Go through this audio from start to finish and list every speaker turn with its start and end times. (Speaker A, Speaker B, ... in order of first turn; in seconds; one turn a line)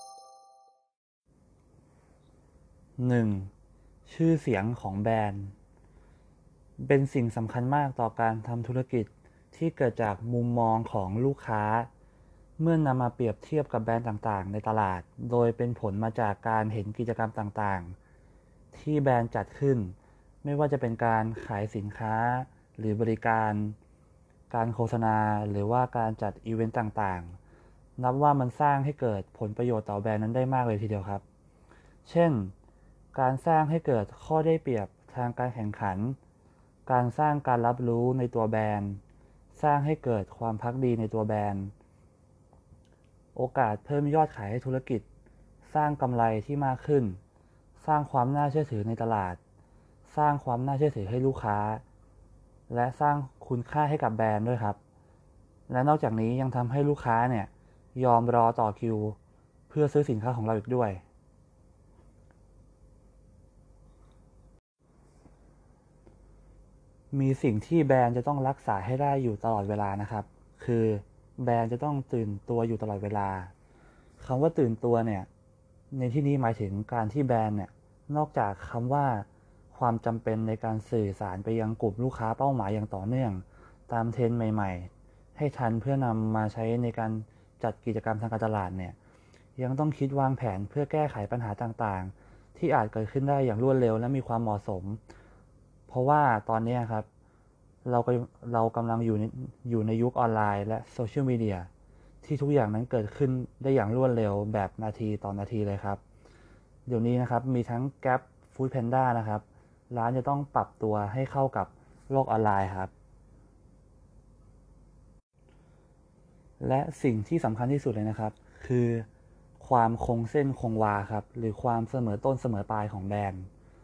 Speaker A: 3.0-3.5
Speaker A: 4.0-5.5
Speaker A: 6.8-11.9
Speaker A: 12.6-17.9
Speaker A: 18.7-23.8
Speaker A: 24.5-27.4
Speaker A: 28.0-31.2
Speaker A: 32.0-32.5
Speaker A: 33.1-36.2
Speaker A: 36.9-39.0
Speaker A: 39.5-41.7
Speaker A: 43.3-45.0
Speaker A: 45.6-47.2
Speaker A: 47.8-49.4
Speaker A: 50.0-51.8
Speaker A: 52.7-54.8
Speaker A: 55.7-59.1
Speaker A: 59.7-61.0
Speaker A: 67.1-73.5
Speaker A: 74.2-75.3
Speaker A: 75.9-89.0
Speaker A: 89.6-95.0
Speaker A: 95.9-97.0
Speaker A: 97.8-101.7
Speaker A: 102.2-106.0
Speaker A: 106.9-112.9
Speaker A: 116.6-119.1
Speaker A: 119.6-123.5